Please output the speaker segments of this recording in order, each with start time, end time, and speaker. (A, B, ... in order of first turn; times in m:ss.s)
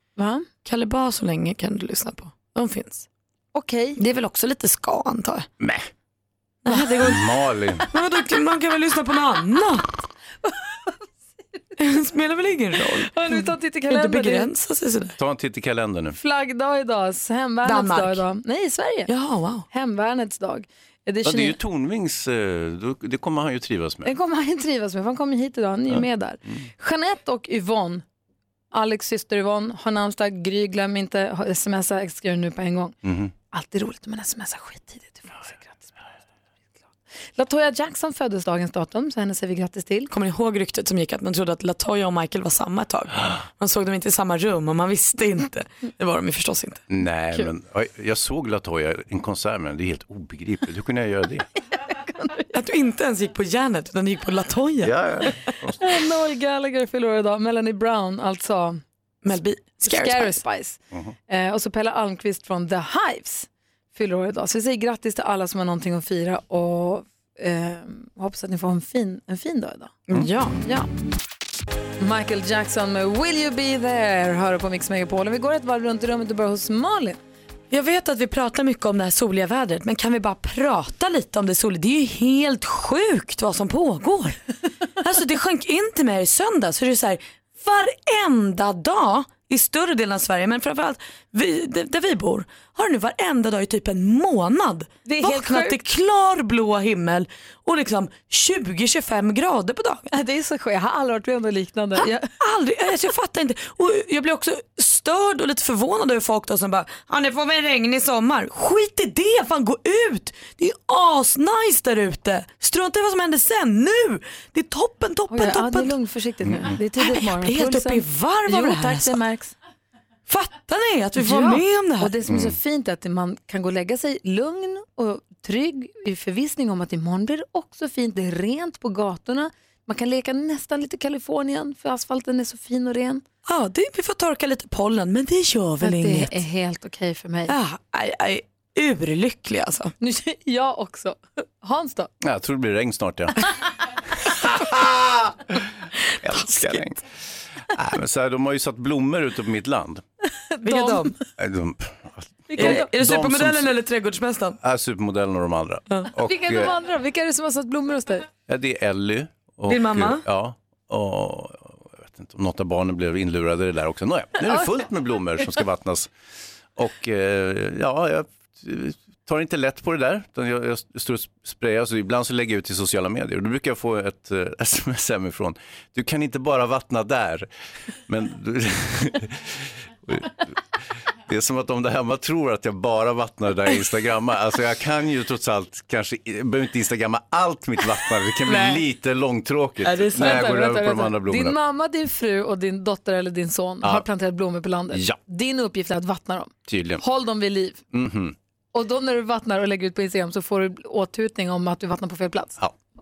0:00.2-0:00.5 A
0:00.6-0:03.0 B
0:03.5-0:04.0 A
0:04.0-0:05.5 B
0:05.6-0:05.9 C
0:06.6-0:07.3 B
0:07.0-0:07.8 C
0:07.9-0:09.8 B
0:11.8-0:15.2 B
0:13.0-0:14.5 A
0:15.2-0:16.2 C
0:16.2-0:19.1 A
0:17.6-0:18.2 B
0:19.1-0:19.6 B
0:19.7-0:21.6 A
0:21.2-0:24.1 C
0:24.0-0:28.0 A
0:28.7-0:32.9 A
0:33.0-0:33.3 C
0:33.5-0:35.9 A
0:37.4-0:40.1 A
0:40.1-0:46.8 B
0:46.9-0:51.5 C
0:52.5-0:54.9 B
0:54.8-0:55.8 C
0:55.8-0:58.8 A
0:59.2-1:00.4 B
0:59.8-1:10.0 A
1:10.1-1:10.6 B
1:10.6-1:10.9 A
1:12.0-1:17.2 A
1:17.7-1:24.4 B
1:25.0-1:40.1 B
1:35.0-1:35.8 A
1:40.1-1:42.3 A
1:42.0-1:56.0 B
1:55.3-1:59.5 A
1:56.4-1:56.7 C
1:57.0-1:59.2 B
2:00.3-2:02.2 B
2:01.2-2:13.2 A
2:02.3-2:02.6 C
2:13.4-2:16.4 B
2:15.8-2:17.5 A
2:17.5-2:19.9 B
2:20.0-2:22.1 A
2:22.2-2:23.4 C
2:24.2-2:25.6 C
2:26.2-2:27.0 C
2:26.3-2:26.8 B
2:27.7-2:30.0 C
2:30.5-2:31.2 A
2:30.6-2:31.1 B
2:31.4-2:33.7 C
2:32.5-2:32.9 A
2:32.6-2:34.6 B
2:34.6-2:36.7 C
2:36.2-2:38.3 A
2:38.5-2:46.1 C
2:39.7-2:40.2 B
2:46.8-2:57.5 C
2:58.1-3:00.6 C
3:01.3-3:11.6 C
3:09.8-3:17.8 A
3:14.9-3:15.2 C
3:16.7-3:17.0 C
3:17.9-3:18.3 C
3:18.7-3:22.6 A